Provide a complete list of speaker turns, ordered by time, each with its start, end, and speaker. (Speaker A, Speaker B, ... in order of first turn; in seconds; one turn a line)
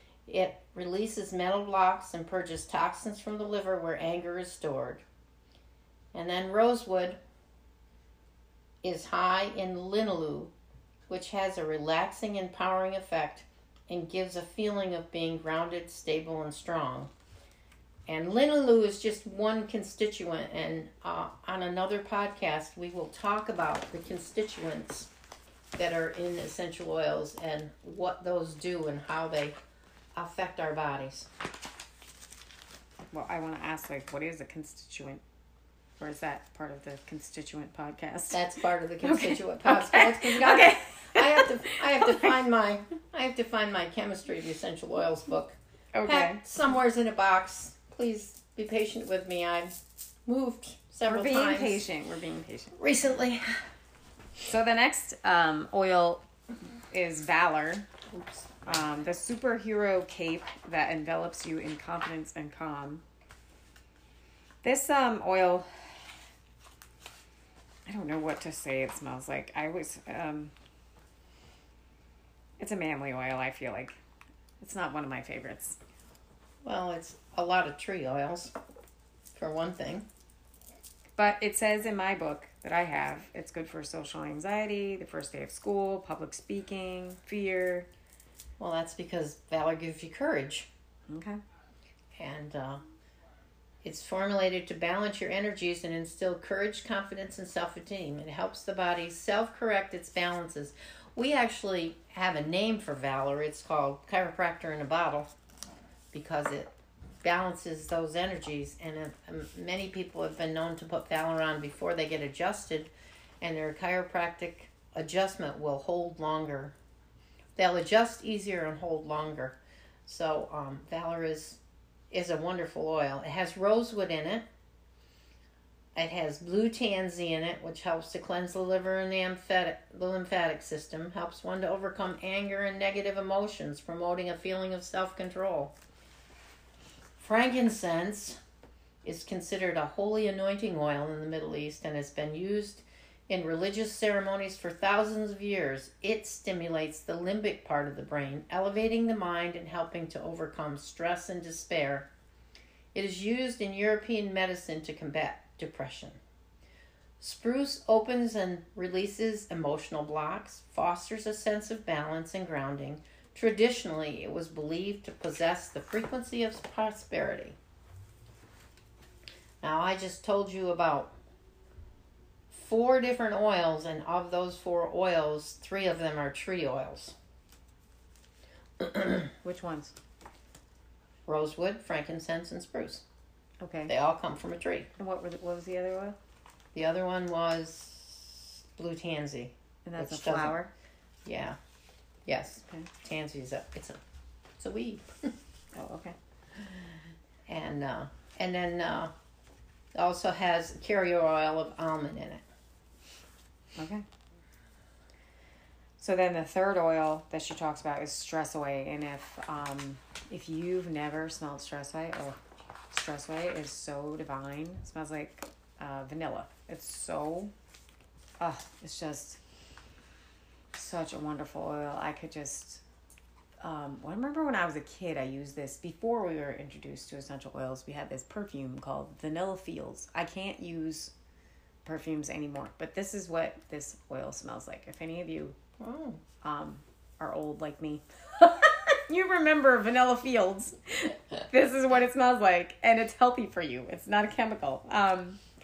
Speaker A: 0.3-5.0
Speaker A: 6.1-7.2
Speaker A: 8.8-10.5
Speaker A: 11.1-17.1
Speaker A: 18.1-25.1
Speaker A: 25.8-29.6
Speaker A: 30.1-31.3
Speaker B: 33.1-35.2
Speaker B: 36.0-38.4
Speaker A: 38.3-51.8
Speaker B: 39.0-42.3
Speaker B: 45.9-46.4
Speaker B: 51.1-52.8
Speaker A: 52.8-53.6
Speaker B: 54.5-56.2
Speaker B: 56.9-57.9
Speaker A: 58.1-58.7
Speaker B: 58.7-63.0
Speaker B: 64.6-66.0
Speaker B: 67.9-70.5
Speaker B: 72.6-74.0
Speaker B: 74.6-75.8
Speaker A: 76.6-78.5
Speaker A: 79.3-80.1
Speaker B: 81.2-87.9
Speaker A: 88.6-90.7
Speaker B: 91.1-91.4
Speaker A: 92.2-92.8
Speaker A: 93.8-105.3
Speaker A: 106.1-116.8
Speaker A: 117.6-121.6
Speaker A: 122.1-124.5
Speaker A: 126.0-135.8
Speaker A: 137.2-138.4
Speaker A: 139.0-152.1
Speaker A: 152.9-156.2
Speaker A: 157.2-167.6
Speaker A: 169.6-171.2
Speaker A: 172.5-177.2
Speaker A: 178.8-179.3
Speaker B: 179.4-179.9
Speaker A: 181.3-183.1
Speaker B: 183.6-183.9
Speaker A: 183.9-184.9
Speaker B: 185.0-186.2
Speaker A: 186.7-190.6
Speaker B: 189.9-190.7
Speaker A: 191.2-191.6
Speaker A: 192.3-194.0
Speaker A: 194.6-195.3
Speaker B: 195.7-196.9
Speaker A: 197.5-199.1
Speaker A: 199.9-202.4
Speaker B: 203.8-204.1
Speaker B: 206.0-212.4
Speaker B: 212.9-217.5
Speaker B: 218.4-219.4
Speaker B: 220.8-222.8
Speaker B: 223.6-231.1
Speaker B: 231.8-235.6
Speaker A: 235.8-236.2
Speaker B: 236.4-245.4